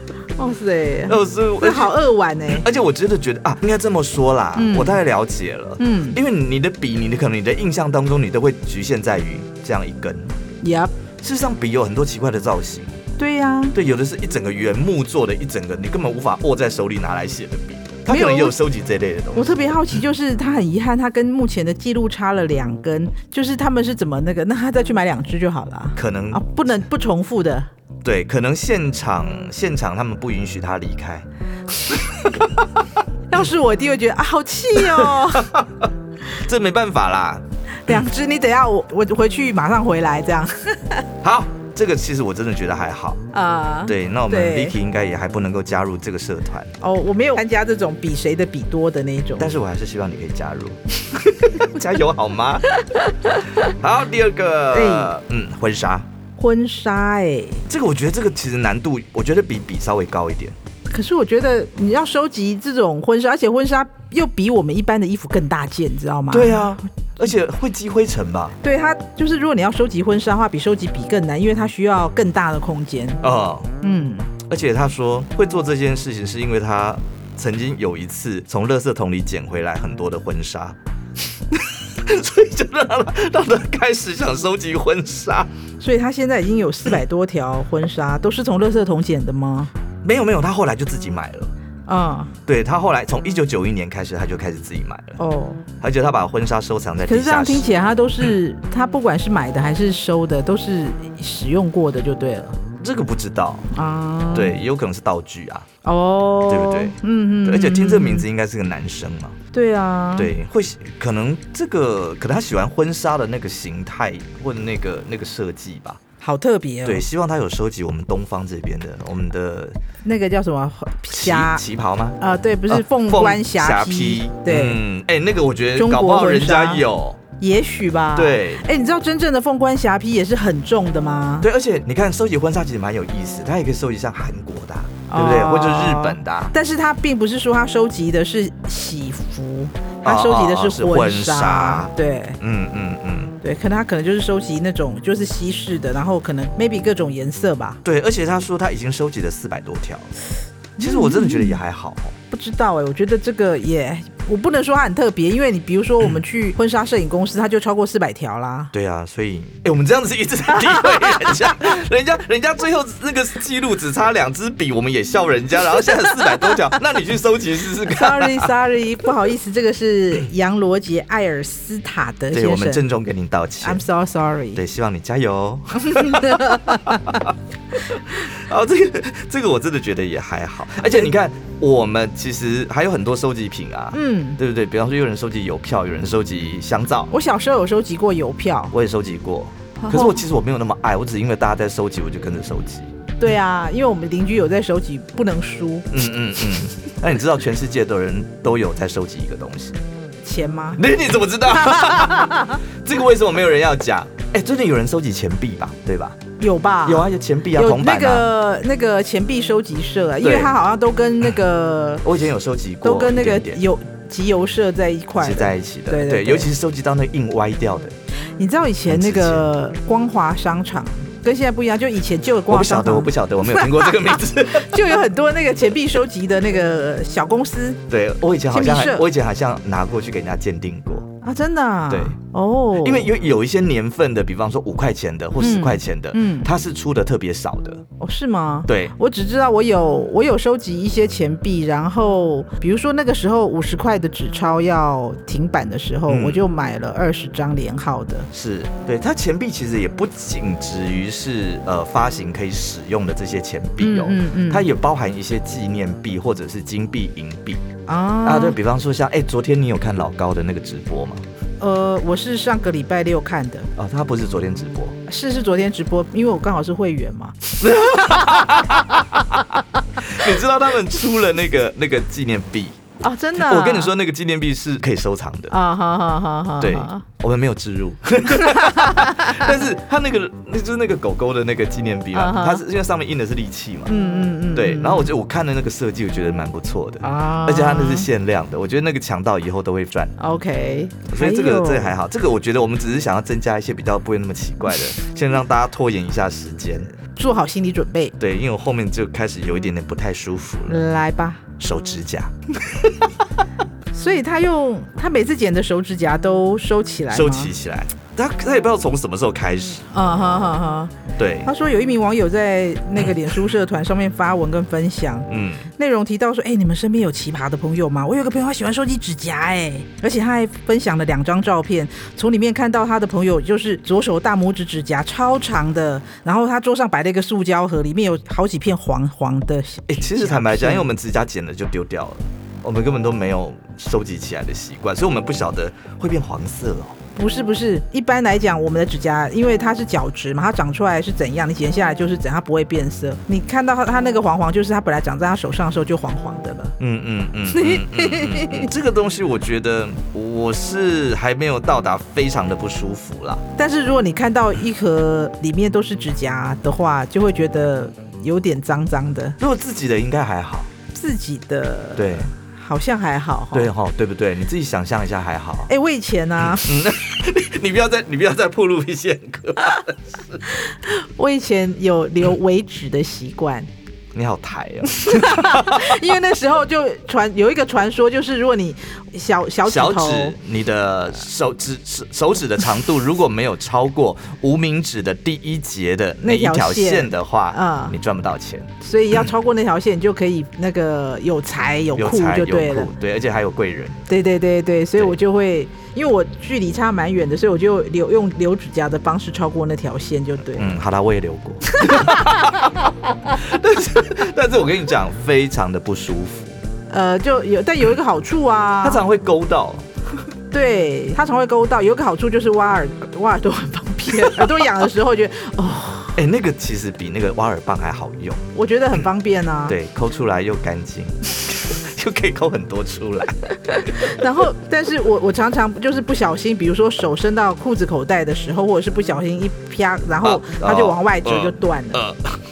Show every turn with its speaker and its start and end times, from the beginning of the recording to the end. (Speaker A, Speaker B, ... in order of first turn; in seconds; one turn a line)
Speaker A: 0.4-2.7
Speaker B: 1.1-2.0
Speaker B: 2.5-10.3
Speaker A: 4.6-5.0
Speaker A: 5.8-6.2
Speaker A: 10.6-10.9
Speaker B: 11.2-13.0
Speaker A: 13.2-13.8
Speaker B: 13.7-19.6
Speaker A: 18.1-18.6
Speaker A: 19.3-27.7
Speaker B: 26.0-26.4
Speaker B: 28.0-31.3
Speaker B: 31.9-32.6
Speaker A: 33.3-35.6
Speaker B: 34.8-38.0
Speaker A: 37.8-41.1
Speaker B: 41.2-43.2
Speaker A: 43.3-44.8
Speaker B: 43.9-46.7
Speaker A: 46.8-49.5
Speaker B: 49.4-52.7
Speaker A: 52.8-53.3
Speaker B: 53.6-56.1
Speaker A: 54.7-55.1
Speaker A: 56.4-57.6
Speaker B: 57.7-60.6
Speaker A: 60.9-66.8
Speaker B: 66.3-68.6
Speaker A: 68.6-73.2
Speaker B: 73.2-73.7
Speaker A: 73.8-74.3
Speaker B: 74.4-80.8
Speaker B: 81.5-85.5
Speaker A: 85.8-89.7
Speaker B: 90.0-91.5
Speaker A: 91.9-92.4
Speaker B: 92.5-95.2
Speaker A: 95.2-95.6
Speaker B: 95.8-97.7
Speaker A: 97.0-102.6
Speaker B: 102.8-103.7
Speaker A: 103.7-104.6
Speaker B: 104.3-105.7
Speaker A: 105.8-108.3
Speaker B: 106.5-109.4
Speaker A: 109.5-110.3
Speaker B: 110.2-116.0
Speaker A: 116.2-117.0
Speaker B: 116.8-119.8
Speaker A: 120.0-121.6
Speaker B: 121.1-122.2
Speaker A: 122.2-124.8
Speaker B: 122.7-127.2
Speaker A: 125.8-126.8
Speaker A: 127.4-131.5
Speaker B: 128.2-128.6
Speaker B: 131.4-136.5
Speaker A: 135.1-142.4
Speaker B: 140.0-143.3
Speaker A: 143.4-147.8
Speaker B: 147.8-150.1
Speaker A: 150.8-151.6
Speaker B: 150.8-152.2
Speaker A: 152.3-158.7
Speaker B: 158.7-168.5
Speaker A: 160.9-161.3
Speaker A: 167.8-172.8
Speaker B: 172.3-173.8
Speaker A: 173.6-174.6
Speaker B: 174.5-187.1
Speaker A: 175.8-177.2
Speaker A: 180.8-181.1
Speaker A: 183.9-184.4
Speaker A: 187.1-188.7
Speaker B: 188.7-192.9
Speaker A: 189.8-190.2
Speaker A: 193.2-195.9
Speaker B: 195.9-199.8
Speaker A: 200.2-200.8
Speaker B: 200.8-206.2
Speaker A: 201.5-202.6
Speaker A: 206.4-212.1
Speaker B: 206.8-208.3
Speaker B: 210.2-210.5
Speaker B: 212.0-213.6
Speaker A: 212.8-216.5
Speaker B: 215.2-217.9
Speaker A: 218.4-227.8
Speaker B: 218.9-219.5
Speaker B: 222.5-224.8
Speaker B: 227.9-231.1
Speaker A: 228.5-229.1
Speaker A: 231.2-233.1
Speaker B: 231.9-232.2
Speaker B: 232.8-237.8
Speaker A: 235.4-236.5
Speaker A: 238.0-248.3
Speaker B: 238.7-238.9
Speaker B: 246.1-246.4
Speaker B: 248.3-257.6
Speaker A: 253.8-254.7
Speaker A: 257.9-258.6
Speaker B: 258.2-261.2
Speaker A: 261.6-263.7
Speaker B: 263.8-265.0
Speaker A: 265.1-268.6
Speaker B: 267.6-272.8
Speaker A: 273.0-273.9
Speaker B: 273.4-275.5
Speaker A: 275.5-277.0
Speaker B: 276.6-283.9
Speaker A: 278.3-279.5
Speaker A: 282.1-282.6
Speaker A: 283.9-285.1
Speaker B: 284.5-290.1
Speaker A: 287.0-288.1
Speaker A: 290.2-291.9
Speaker B: 291.1-296.9
Speaker A: 297.1-298.1
Speaker B: 298.2-300.8
Speaker A: 300.7-301.5
Speaker B: 301.6-302.3
Speaker A: 303.9-307.5
Speaker B: 307.1-309.9
Speaker A: 309.9-310.9
Speaker B: 311.1-311.5
Speaker A: 311.4-330.9
Speaker B: 315.3-315.7
Speaker B: 329.9-337.0
Speaker A: 337.1-346.8
Speaker B: 346.8-353.4
Speaker A: 347.5-348.7
Speaker A: 353.6-359.4
Speaker B: 359.4-360.7
Speaker A: 360.9-363.7
Speaker B: 361.9-362.3
Speaker B: 363.5-365.7
Speaker A: 365.7-366.9
Speaker B: 366.5-370.4
Speaker A: 370.5-373.7
Speaker B: 374.1-376.0
Speaker A: 374.9-380.4
Speaker B: 379.6-388.7
Speaker A: 386.2-387.9
Speaker A: 388.8-392.9
Speaker B: 391.9-394.0
Speaker A: 394.1-400.8
Speaker B: 400.6-406.6
Speaker A: 401.7-402.7
Speaker A: 406.9-409.0
Speaker B: 408.8-409.9
Speaker A: 410.5-416.2
Speaker B: 416.1-419.0
Speaker A: 418.5-419.8
Speaker B: 419.7-424.2
Speaker A: 423.7-432.0
Speaker B: 430.2-432.4